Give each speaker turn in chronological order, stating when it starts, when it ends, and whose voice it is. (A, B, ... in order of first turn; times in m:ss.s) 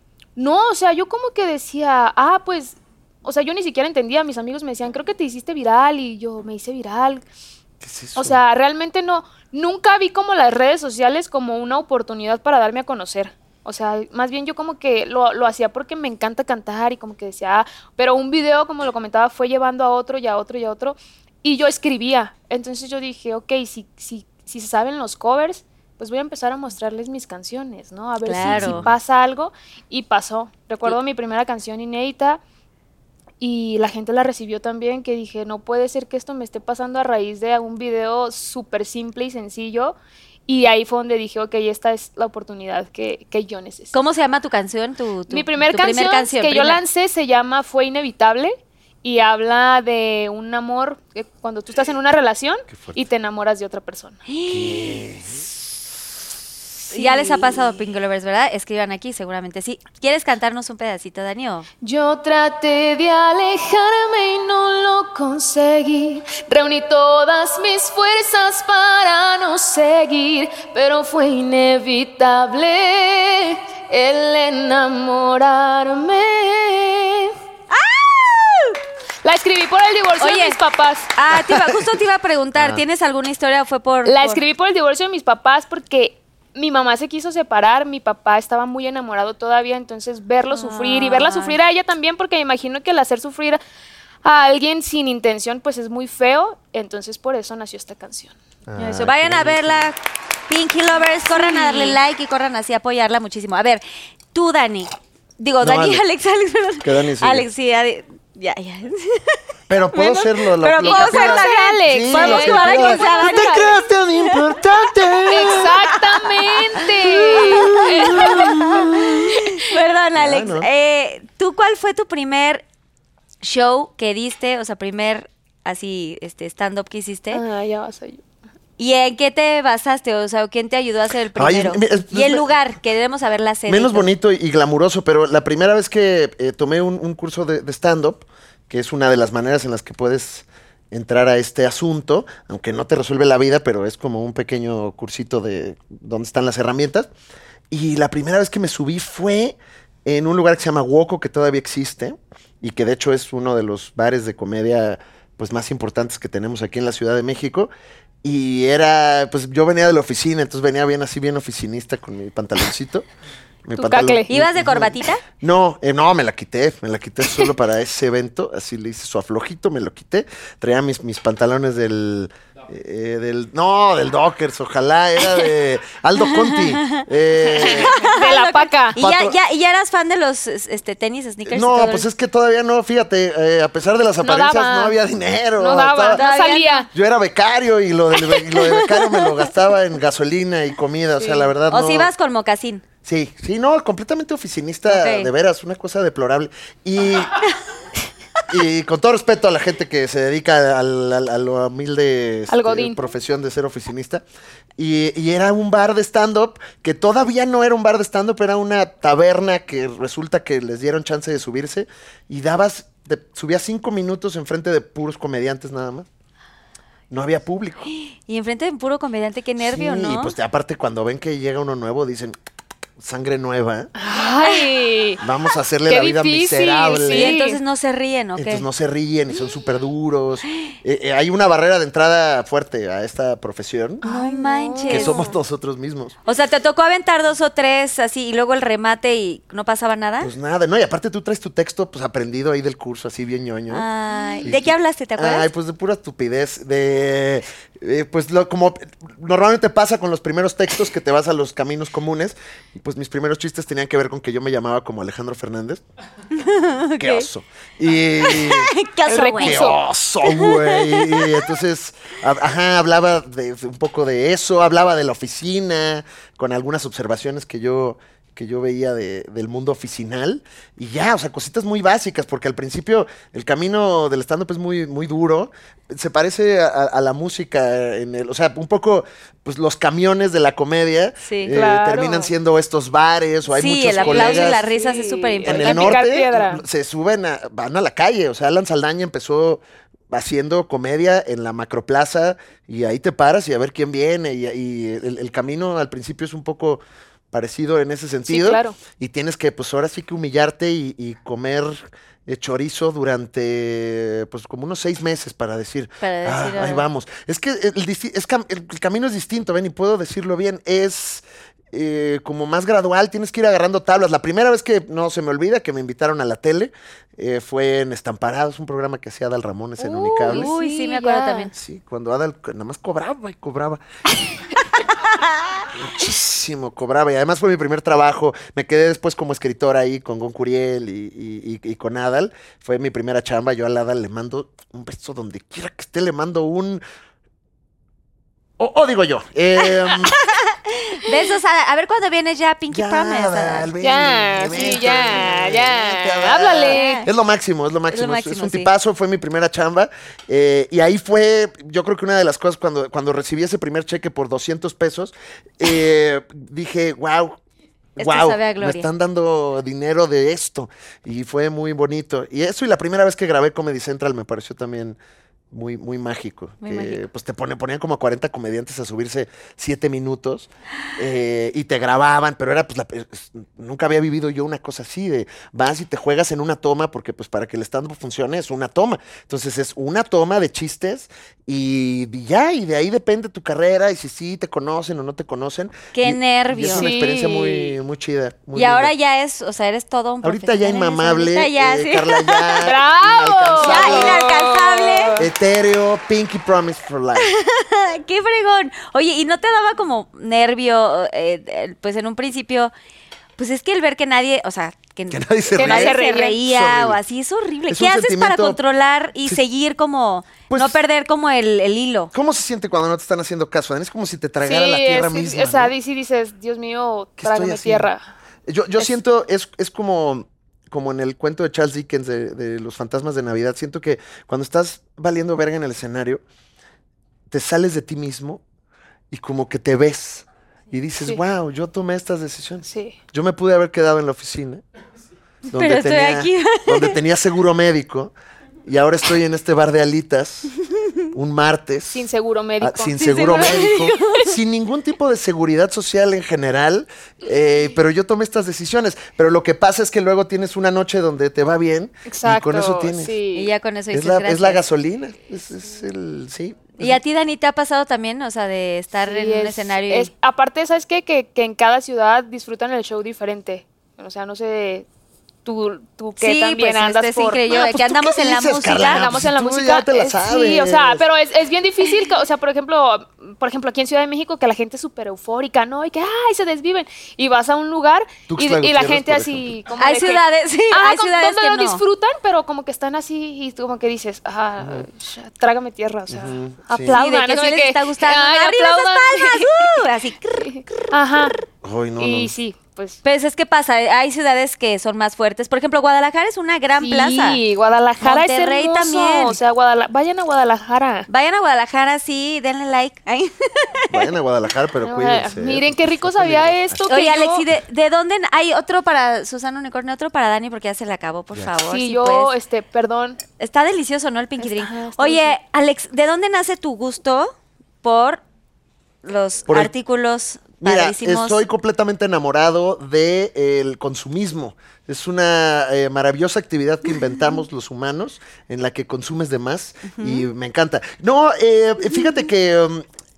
0:00.4-0:07.2 A
0:07.8-0:08.4 B
0:08.1-0:32.4 A
0:28.2-0:28.8 C
0:28.5-0:29.0 B
0:33.4-0:40.0 A
0:40.5-0:43.9 A
0:43.9-0:46.8 C
0:45.3-0:54.2 A
0:52.7-0:53.0 B
0:54.3-0:55.1 C
0:54.5-0:55.5 B
0:56.9-0:57.7 A
0:56.9-1:01.7 C
1:01.8-1:17.3 A
1:17.7-1:18.8 C
1:19.2-1:21.1 A
1:20.2-1:20.6 C
1:21.1-1:24.4 C
1:21.3-1:21.9 B
1:22.6-1:22.8 B
1:24.0-1:33.6 A
1:30.5-1:31.6 C
1:34.2-1:38.3 A
1:38.7-1:39.9 B
1:38.8-1:40.0 C
1:40.5-1:43.8 C
1:41.3-1:42.0 A
1:44.3-1:49.4 C
1:45.6-1:46.0 B
1:46.8-1:47.5 B
1:49.7-1:55.8 B
1:49.9-1:50.3 A
1:50.6-1:54.4 C
1:50.8-1:53.8 A
1:55.0-2:02.6 C
1:55.3-1:58.7 A
1:57.5-1:59.2 B
2:00.1-2:00.7 B
2:03.4-2:07.4 C
2:07.3-2:08.2 A
2:08.8-2:14.1 C
2:11.4-2:12.4 B
2:13.7-2:27.1 B
2:27.7-2:37.7 B
2:38.2-2:43.0 B
2:43.6-2:57.9 B
2:43.8-2:44.3 A
2:44.3-2:45.2 C
2:56.2-2:57.0 C
2:57.5-2:59.0 A
2:57.6-3:02.0 C
2:59.0-2:59.4 B
3:01.4-3:06.2 B
3:04.2-3:05.0 A
3:05.6-3:06.9 A
3:06.1-3:06.8 C
3:06.9-3:12.1 B
3:08.2-3:09.5 C
3:11.2-3:11.5 A
3:11.7-3:12.8 C
3:13.0-3:17.4 B
3:14.9-3:15.3 C
3:18.5-3:24.2 B
3:22.5-3:23.0 A
3:24.8-3:36.1 B
3:37.1-3:37.9 B
3:37.9-3:40.3 C
3:39.6-3:42.4 B
3:43.0-3:43.9 B
3:44.0-3:45.2 A
3:45.2-3:47.4 B
3:45.9-3:47.6 A
3:47.1-3:48.7 C
3:48.4-3:54.0 B
3:54.0-3:55.2 C
3:54.0-3:55.3 A
3:54.9-3:56.1 B
3:56.2-4:00.3 C
4:00.2-4:03.8 B
4:03.7-4:05.5 C
4:04.1-4:04.5 A
4:04.4-4:15.8 B
4:16.4-4:17.3 C
4:17.0-4:18.7 B
4:18.2-4:19.7 C
4:19.1-4:19.8 A
4:19.4-4:44.7 B
4:20.2-4:21.5 C
4:41.2-4:41.5 C
4:41.5-4:42.3 A
4:43.5-4:46.0 C
4:43.9-4:46.6 A
4:45.4-5:20.5 B
4:58.3-4:58.8 A
5:06.0-5:06.8 C
5:19.8-5:21.5 A
5:20.3-5:21.5 C
5:21.5-5:23.8 B
5:25.7-5:36.8 B
5:38.6-5:40.2 B
5:40.3-5:43.7 C
5:42.7-5:57.4 B
5:43.8-5:47.0 A
5:46.7-5:47.1 C
5:47.9-5:48.7 C
5:58.0-5:58.9 C
5:58.0-6:05.0 B
6:05.5-6:28.9 B
6:06.6-6:07.0 C
6:25.9-6:26.9 C
6:26.7-6:27.8 A
6:28.5-6:32.7 C
6:30.2-6:34.2 B
6:32.6-6:35.3 A
6:33.6-6:35.2 C
6:35.2-6:37.3 B
6:37.2-6:42.7 C
6:43.4-6:52.1 C
6:45.1-6:47.0 B
6:45.5-6:46.4 A
6:47.7-6:48.6 B
6:50.5-6:50.8 B
6:52.1-6:55.7 B
6:54.4-6:58.0 A
6:57.2-6:57.9 B
6:58.5-7:06.2 B
7:07.3-7:08.4 B
7:09.1-7:14.6 B
7:12.6-7:13.0 A
7:15.5-7:18.1 B
7:15.5-7:17.0 C
7:18.6-7:20.5 B
7:21.1-7:22.1 B
7:21.9-7:23.6 A
7:22.6-7:33.2 B
7:23.0-7:24.3 C
7:32.1-7:33.5 A
7:33.3-7:34.6 C
7:33.9-7:37.0 B
7:36.8-7:40.1 C
7:39.0-7:44.8 A
7:45.4-7:47.6 A
7:46.2-7:49.0 C
7:47.5-7:51.0 B
7:48.9-8:11.3 A
7:58.3-7:59.5 B
7:59.8-8:01.8 C
8:04.6-8:04.8 B
8:06.1-8:07.0 B
8:06.9-8:10.4 C
8:11.6-8:12.3 B
8:12.0-8:13.0 A
8:13.0-8:17.4 C
8:16.8-8:21.1 A
8:18.0-8:19.4 C
8:21.1-8:24.0 C
8:23.9-8:26.8 B
8:24.8-8:27.4 A
8:26.9-8:32.3 C
8:31.7-8:33.2 A
8:33.4-8:38.2 C
8:34.4-8:35.3 A
8:39.0-8:41.4 C
8:39.5-8:39.7 B
8:40.6-8:52.8 B
8:49.9-8:50.2 C